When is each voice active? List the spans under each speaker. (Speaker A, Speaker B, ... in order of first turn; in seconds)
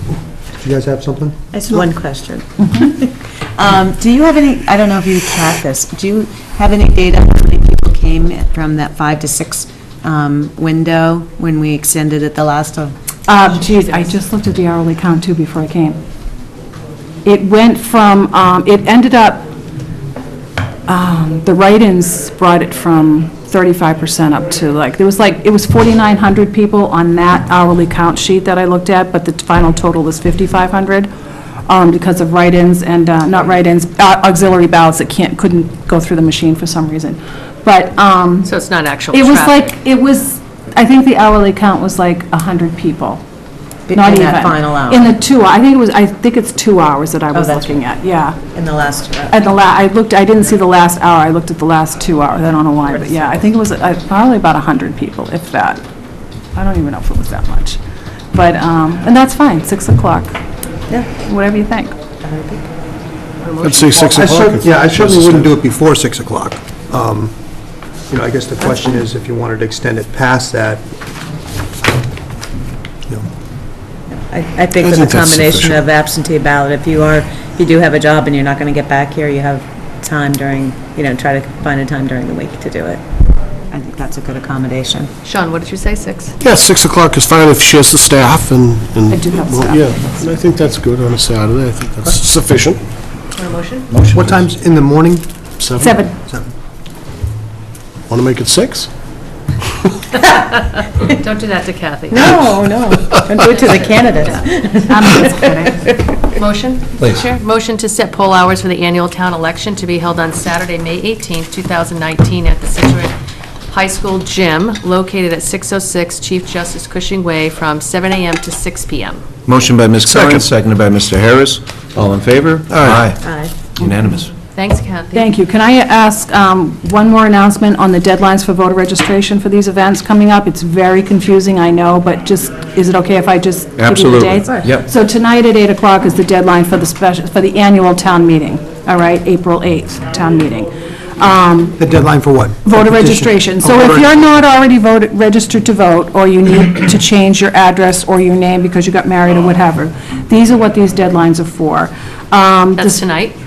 Speaker A: 0.6-1.4, 64.0-67.3, 68.1-70.8, 94.1-95.3, 141.8-144.1
Speaker B: 1.5-13.0, 43.9-45.1, 47.3-47.8, 48.5-49.4, 62.2-62.7, 74.1-83.0, 83.7-85.1, 102.1-106.2, 123.2-123.6
Speaker C: 13.3-16.0, 17.2-19.5, 20.9-31.1, 31.7-38.5, 39.1-43.2, 43.9-48.4, 49.3-55.8, 56.5-57.8, 58.3-60.4, 61.1-62.0, 89.1-90.3, 95.8-96.2, 104.9-105.8, 125.1-141.8, 142.7-153.0
Speaker D: 38.5-39.7, 63.4-64.1, 85.2-86.3, 93.3-93.9, 100.2-102.3, 103.2-104.5, 106.3-113.1, 113.7-119.2, 124.5-125.3, 152.8-153.4
Speaker E: 63.6-65.5, 74.8-75.8, 86.4-92.8, 94.1-94.4, 95.6-96.0, 98.1-98.9, 120.0-120.5, 122.7-123.1
Speaker F: 107.0-107.3, 119.5-123.2, 123.7-124.3, 133.8-134.9